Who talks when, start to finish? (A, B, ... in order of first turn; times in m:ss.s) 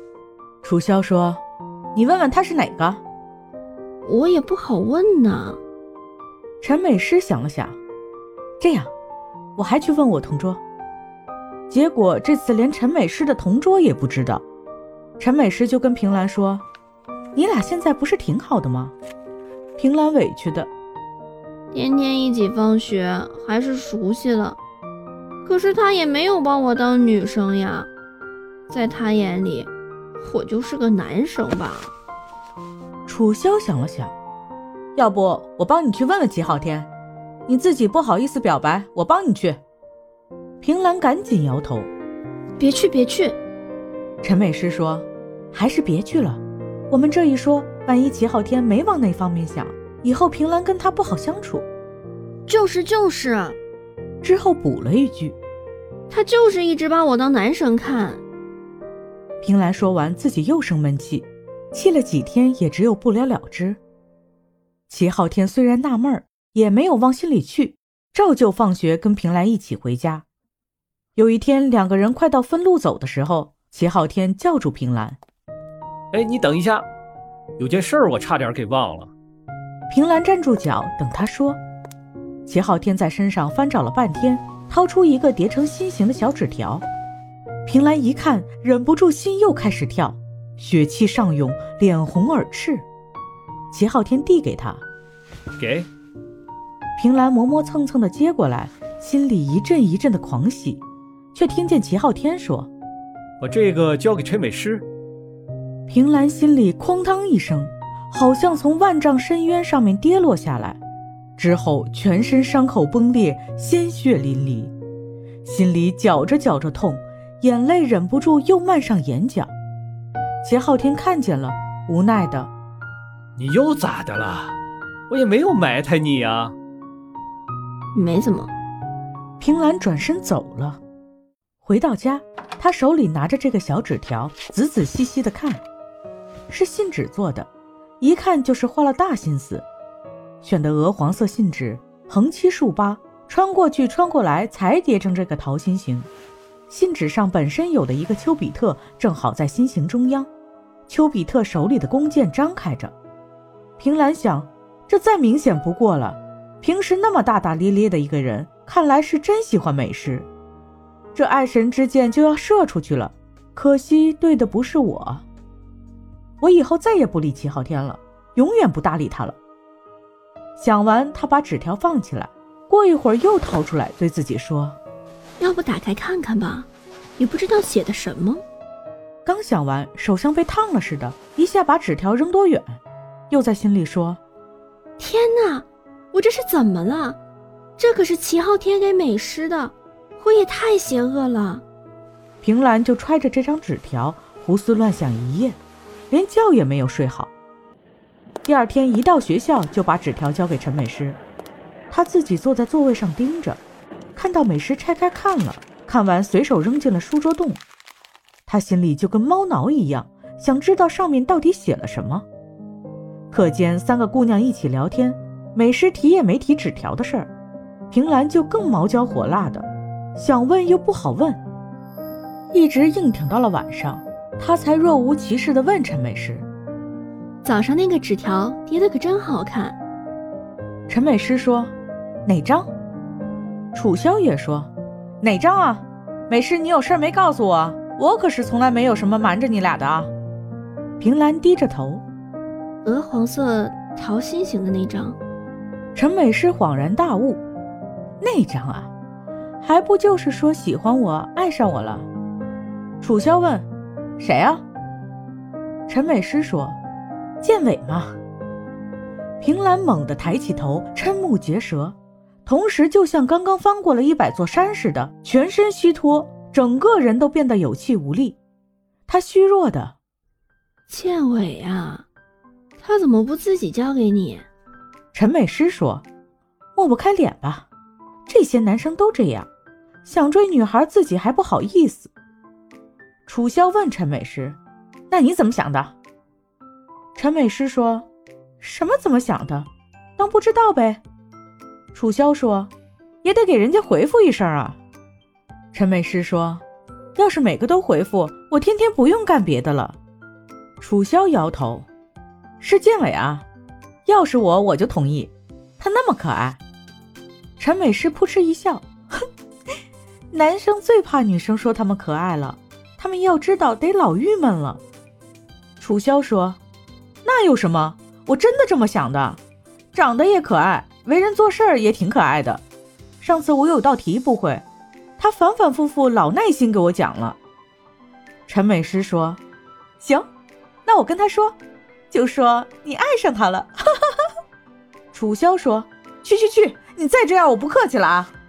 0:00.6-0:01.4 A
0:01.9-0:03.0 A
0:04.0-0:05.6 B
0:06.6-0:07.8 A
0:08.6-0:08.9 A
0:09.6-0:10.6 A
0:11.7-0:14.4 A
0:15.2-0:16.6 A
0:17.3-0:18.9 A
0:19.8-0:20.7 A
0:21.7-0:24.6 B
0:25.4-0:27.9 B
0:28.7-0:31.9 B
0:33.0-0:34.1 A
0:34.9-0:36.9 A
0:37.5-0:39.6 A
0:40.6-0:41.9 A
0:42.6-0:43.4 B
0:44.2-0:51.6 A
0:52.5-0:53.6 B
0:54.2-0:55.4 A
0:56.1-0:58.2 B
0:59.4-1:03.8 A
1:04.9-1:10.2 A
1:11.2-1:15.2 A
1:16.1-1:16.8 C
1:17.6-1:19.1 C
1:19.9-1:21.6 A
1:22.4-1:26.8 A
1:27.6-1:32.8 A
1:33.7-1:34.8 A
1:35.6-1:35.9 C
1:37.0-1:40.8 A
1:41.3-1:42.7 A
1:43.4-1:44.8 C
1:45.9-1:50.8 A
1:51.4-1:54.7 A
1:55.4-1:59.5 A
2:00.4-2:02.5 A
2:03.4-2:04.6 C
2:05.1-2:06.5 C
2:07.9-2:08.5 B
2:09.4-2:10.8 A
2:11.6-2:15.6 A
2:16.5-2:17.5 A
2:18.0-2:19.6 A
2:20.4-2:26.1 A
2:26.7-2:30.3 A
2:30.9-2:32.9 A
2:33.8-2:40.3 A
2:41.1-2:45.2 A
2:46.4-2:49.4 A
2:50.6-2:54.8 A
2:55.4-2:58.4 B
2:59.2-3:04.2 A
3:05.0-3:07.2 B
3:07.8-3:11.6 B
3:12.4-3:15.6 A
3:16.1-3:17.3 A
3:18.4-3:21.2 A
3:21.9-3:23.6 A
3:24.1-3:27.6 A
3:28.5-3:32.2 A
3:33.3-3:37.3 A
3:37.9-3:41.4 A
3:42.5-3:46.4 A
3:47.4-3:49.8 B
3:50.9-3:51.7 A
3:52.2-3:52.7 A
3:53.7-4:00.1 A
4:01.0-4:02.0 A
4:02.8-4:05.2 B
4:05.9-4:07.4 A
4:08.2-4:08.9 A
4:09.6-4:12.1 A
4:13.0-4:13.6 A
4:14.2-4:14.6 A
4:15.9-4:16.8 A
4:17.4-4:18.2 A
4:19.4-4:28.4 A
4:29.1-4:30.0 A
4:30.9-4:32.0 B
4:32.8-4:34.5 B
4:35.1-4:36.0 A
4:36.8-4:37.7 A
4:38.3-4:39.5 A
4:40.0-4:42.1 A
4:43.3-4:44.6 A
4:45.1-4:45.9 A
4:47.2-4:48.0 A
4:48.6-4:51.0 A
4:51.9-4:52.7 A
4:53.2-4:54.8 A
4:55.7-4:56.6 A
4:57.2-5:00.0 A
5:00.8-5:01.9 A
5:02.6-5:03.4 A
5:04.0-5:06.6 A
5:07.6-5:08.9 A
5:10.3-5:14.8 A
5:15.8-5:16.6 A
5:17.2-5:19.4 A
5:19.9-5:22.6 A
5:23.2-5:24.6 A
5:25.2-5:27.4 A
5:28.5-5:29.4 A
5:30.0-5:30.3 A
5:30.8-5:31.6 A
5:32.1-5:34.2 A
5:35.1-5:38.3 A